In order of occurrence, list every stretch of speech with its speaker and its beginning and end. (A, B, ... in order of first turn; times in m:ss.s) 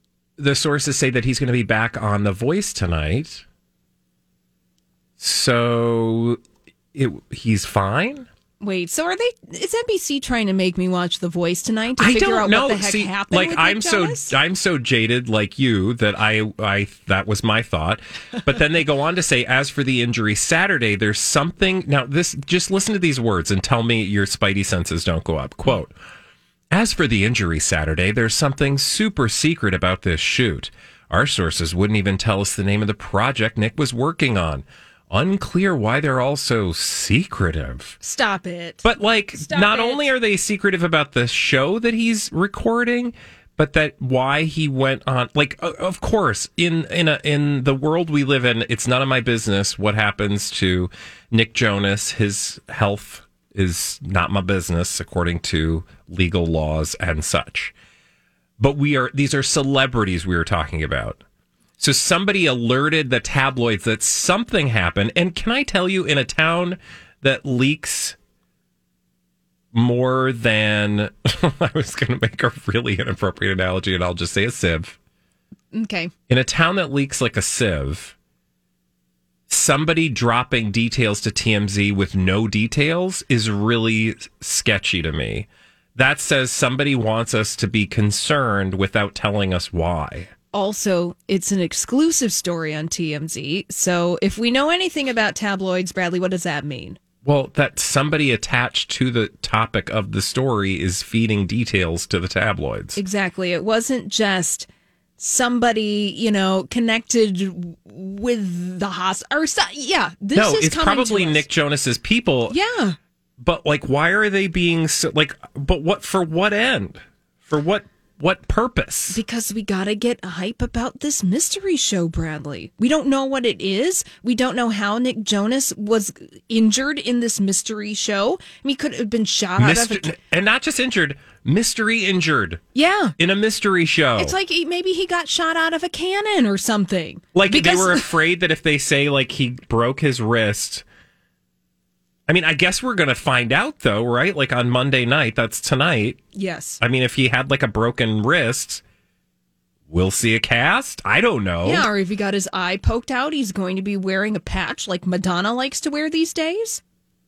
0:00.4-0:03.4 A
0:05.2-0:06.4 A
0:06.9-0:08.3 A
0:08.6-0:14.3 B
0:12.0-0:25.9 A
0:26.7-0:38.0 A
0:38.0-0:40.1 B
0:38.8-0:57.7 A
0:58.6-1:01.2 A
1:01.8-1:08.2 A
1:09.7-1:15.0 A
1:15.7-1:16.1 B
1:16.3-1:18.1 A
1:19.5-1:30.3 A
1:30.5-1:37.0 B
1:37.2-1:43.0 A
1:43.0-1:44.7 B
1:45.2-1:51.5 B
1:50.3-1:52.6 A
1:52.5-1:53.0 B
1:53.4-1:59.2 A
1:59.1-2:10.2 B
2:09.6-2:12.6 A
2:12.7-2:13.1 B
2:13.2-2:14.4 A
2:14.2-2:18.1 B
2:17.3-2:20.8 A
2:22.3-2:26.2 A
2:26.3-2:26.8 B
2:26.8-2:28.8 A
2:29.9-2:31.9 A
2:31.6-2:36.8 B